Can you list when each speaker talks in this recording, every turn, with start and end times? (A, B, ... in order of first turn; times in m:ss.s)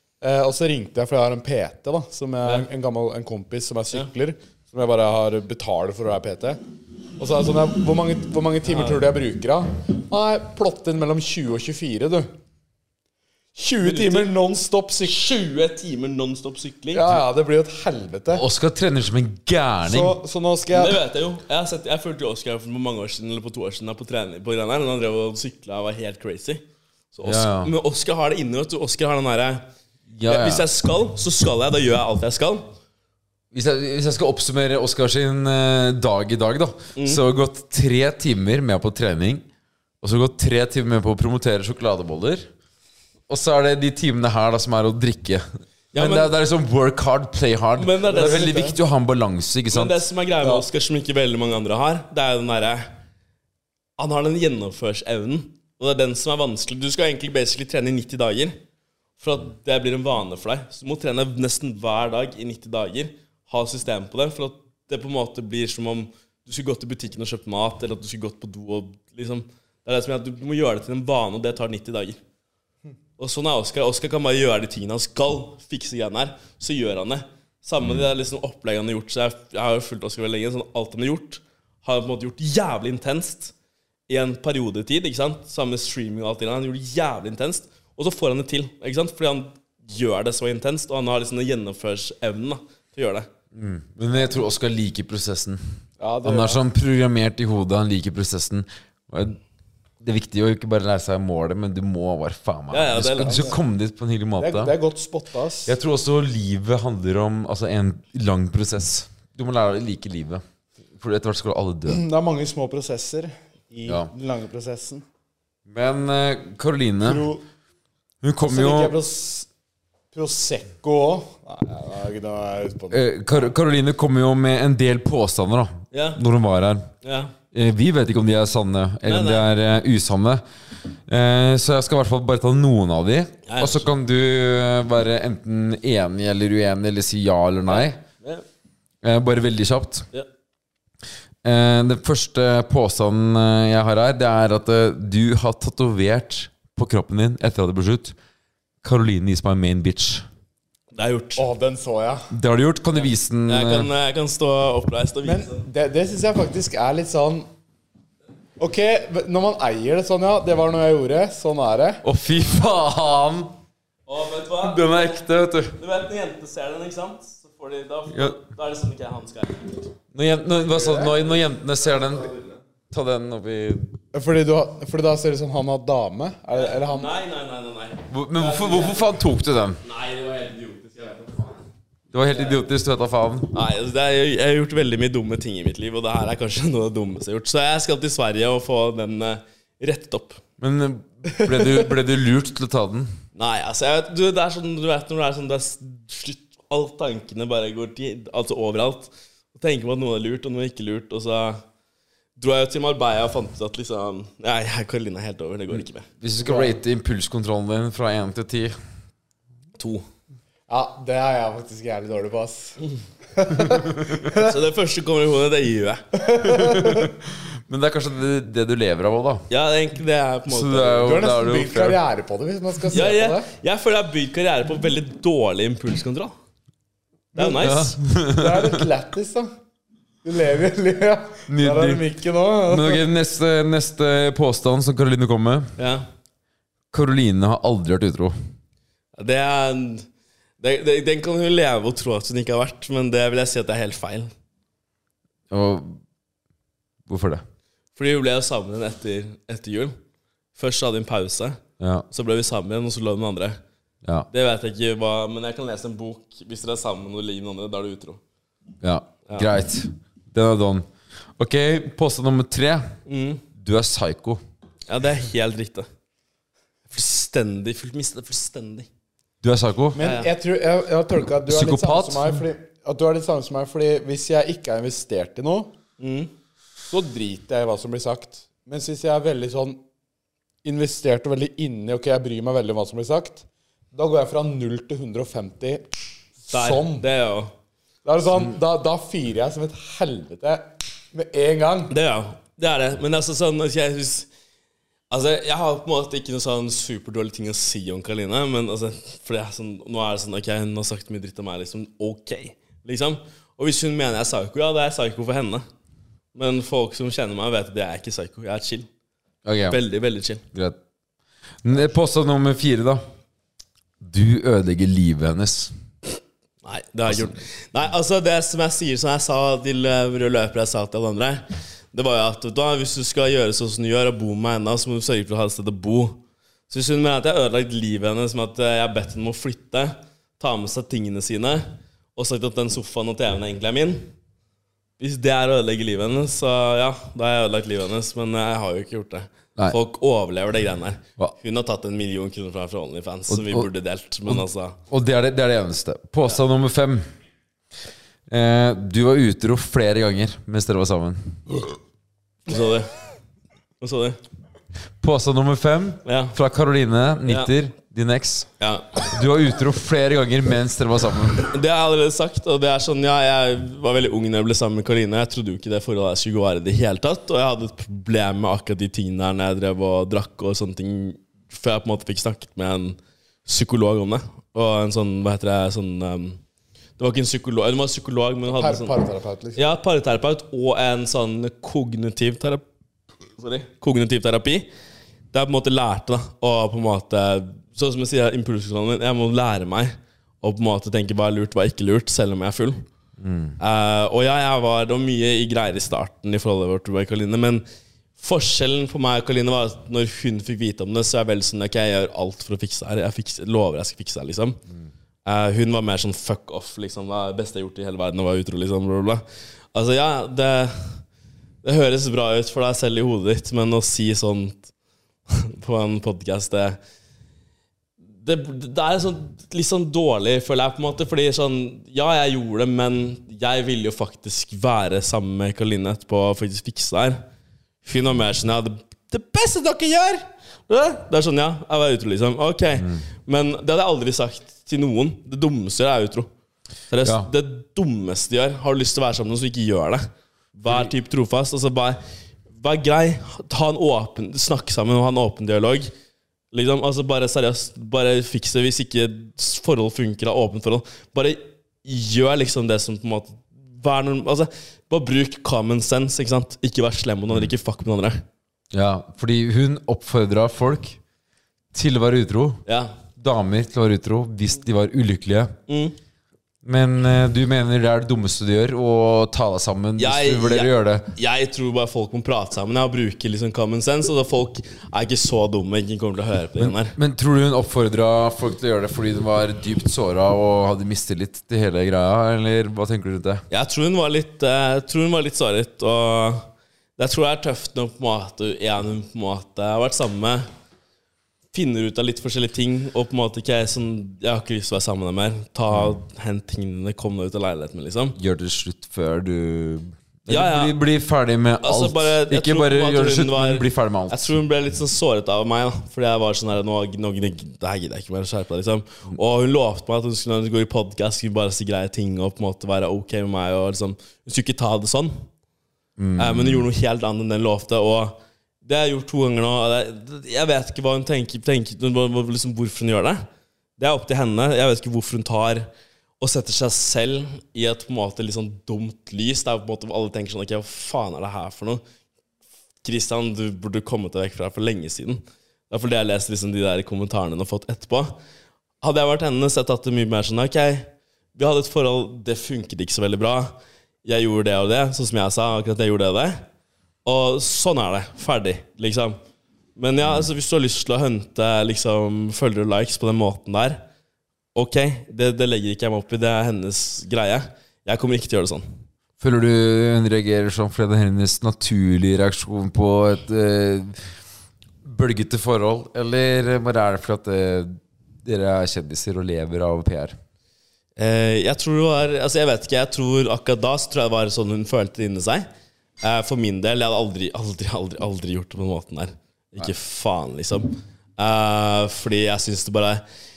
0:00.2-0:06.6 A
0:02.4-0:02.7 B
0:07.2-0:12.3 A
0:08.7-0:09.0 B
0:13.6-0:15.2 A
0:13.8-0:14.3 B
0:15.0-0:17.1 B
0:16.9-0:18.4 A
0:18.3-0:20.2 C
0:19.8-0:21.0 A
0:20.7-0:29.6 B
0:27.2-0:27.7 C
0:30.1-0:30.6 C
0:30.2-0:32.7 B
0:33.5-0:39.4 C
0:37.0-0:37.2 B
0:40.0-0:42.5 C
0:43.3-0:50.0 C
0:45.9-0:46.3 B
0:47.8-0:48.6 B
0:48.1-0:48.7 A
0:49.7-0:52.9 B
0:54.0-0:58.6 B
0:59.2-1:12.2 B
1:13.2-1:23.5 B
1:24.1-1:33.3 B
1:33.5-1:35.6 C
1:36.0-1:36.6 A
1:36.2-1:39.4 C
1:40.0-1:44.7 C
1:42.7-1:43.5 B
1:43.2-1:43.5 A
1:44.4-1:45.8 A
1:45.6-1:50.4 C
1:51.0-1:52.0 C
1:51.9-1:55.0 A
1:53.8-1:54.1 C
1:55.7-1:57.3 C
1:57.0-1:57.4 A
1:58.2-1:58.9 C
1:58.4-1:59.5 A
2:00.1-2:03.0 A
2:02.9-2:06.9 C
2:05.9-2:06.2 B
2:07.0-2:07.3 B
2:07.5-2:10.4 C
2:09.0-2:09.4 B
2:11.1-2:18.0 C
2:13.5-2:13.9 B
2:17.7-2:18.4 B
2:19.0-2:20.1 C
2:21.4-2:28.2 C
2:28.8-2:30.2 C
2:30.9-2:31.4 B
2:31.4-2:32.3 A
2:32.3-2:33.9 C
2:33.5-2:35.6 B
2:35.2-2:37.5 A
2:38.6-2:42.0 A
2:42.0-2:43.5 C
2:44.1-2:45.2 B
2:44.6-2:45.8 C
2:45.8-2:49.9 B
2:48.1-2:48.4 C
2:50.1-2:52.3 C
2:50.8-2:51.4 B
2:52.2-2:52.5 B
2:52.9-2:53.9 C
2:54.1-2:57.1 A
2:56.5-2:59.2 B
2:58.1-2:59.8 C
2:59.8-3:01.6 B
3:02.1-3:03.5 C
3:02.3-3:02.6 B
3:03.5-3:10.4 B
3:10.6-3:13.1 C
3:13.3-3:21.6 B
3:22.4-3:26.0 B
3:26.2-3:28.7 C
3:26.4-3:26.7 A
3:29.8-3:30.0 B
3:30.7-3:32.8 A
3:33.3-3:34.5 A
3:34.3-3:36.0 B
3:36.2-3:37.1 A
3:36.4-3:39.4 C
3:39.5-3:41.2 B
3:40.5-3:42.0 C
3:41.0-3:43.5 A
3:42.9-3:46.3 B
3:47.3-3:48.0 B
3:47.5-3:48.8 C
3:48.3-3:49.5 A
3:50.2-3:53.0 A
3:51.5-3:52.0 C
3:52.6-3:55.7 C
3:55.8-3:56.0 B
3:56.9-3:58.3 C
3:59.2-4:00.0 B
4:00.6-4:04.3 B
4:05.5-4:06.0 C
4:07.1-4:07.4 C
4:08.0-4:09.9 B
4:10.6-4:11.6 B
4:11.8-4:12.0 C
4:12.1-4:13.6 B
4:14.3-4:18.2 B
4:18.8-4:20.8 C
4:21.4-4:22.9 C
4:23.0-4:23.4 B
4:23.6-4:24.4 C
4:24.9-4:25.9 B
4:26.9-4:28.9 B
4:29.4-4:30.0 C
4:29.9-4:35.7 A
4:30.0-4:30.3 B
4:31.5-4:32.4 C
4:36.0-4:36.3 B
4:36.9-4:39.8 A
4:40.6-4:45.9 A
4:46.4-4:47.0 A
4:46.5-4:47.5 B
4:48.0-4:51.9 A
4:51.9-4:54.3 B
4:55.1-5:05.6 B
5:06.3-5:08.9 B
5:09.4-5:09.8 C
5:09.7-5:10.4 B
5:10.5-5:10.8 C
5:11.6-5:13.0 C
5:14.0-5:15.7 C
5:16.6-5:34.1 B
5:17.1-5:17.3 C
5:35.0-5:44.8 B
5:43.3-5:43.7 C
5:44.3-5:47.1 C
5:48.3-5:51.5 C
5:52.5-5:52.9 B
5:53.8-5:54.2 B
5:55.0-5:58.5 C
5:56.0-5:56.4 B
5:57.2-5:57.5 B
5:58.6-5:59.0 B
5:59.1-6:01.5 C
6:01.5-6:16.4 B
6:17.0-6:18.9 B
6:18.5-6:19.6 A
6:19.6-6:22.6 B
6:23.4-6:24.7 B
6:25.3-6:32.8 B
6:33.2-6:33.6 C
6:33.6-6:37.6 B
6:38.2-6:44.6 B
6:45.2-6:51.0 B
6:51.6-6:54.7 B
6:55.3-6:56.8 B
6:58.1-7:07.2 B
7:07.8-7:16.3 B
7:12.8-7:13.0 C
7:16.9-7:22.0 B
7:17.0-7:17.3 C
7:20.7-7:20.9 C
7:22.6-7:25.9 B
7:26.5-7:38.2 B
7:38.7-7:41.0 C
7:41.7-7:42.6 C
7:42.6-7:42.9 B
7:43.2-7:45.5 C
7:45.7-7:46.0 B
7:46.6-7:51.1 C
7:50.0-7:57.0 B
7:56.6-8:03.4 C
8:03.5-8:10.4 B
8:11.5-8:18.2 B
8:18.2-8:24.3 C
8:20.3-8:20.8 B
8:21.6-8:35.2 B
8:36.0-8:36.7 C
8:36.2-8:43.3 B
8:43.8-8:45.7 B
8:46.2-8:51.8 B
8:52.8-8:58.2 B
8:58.8-9:06.4 B
9:07.0-9:09.2 B
9:09.8-9:13.8 B
9:14.5-9:18.6 B
9:19.2-9:24.0 C
9:24.8-9:30.2 C
9:31.0-9:35.5 B
9:36.0-9:43.0 B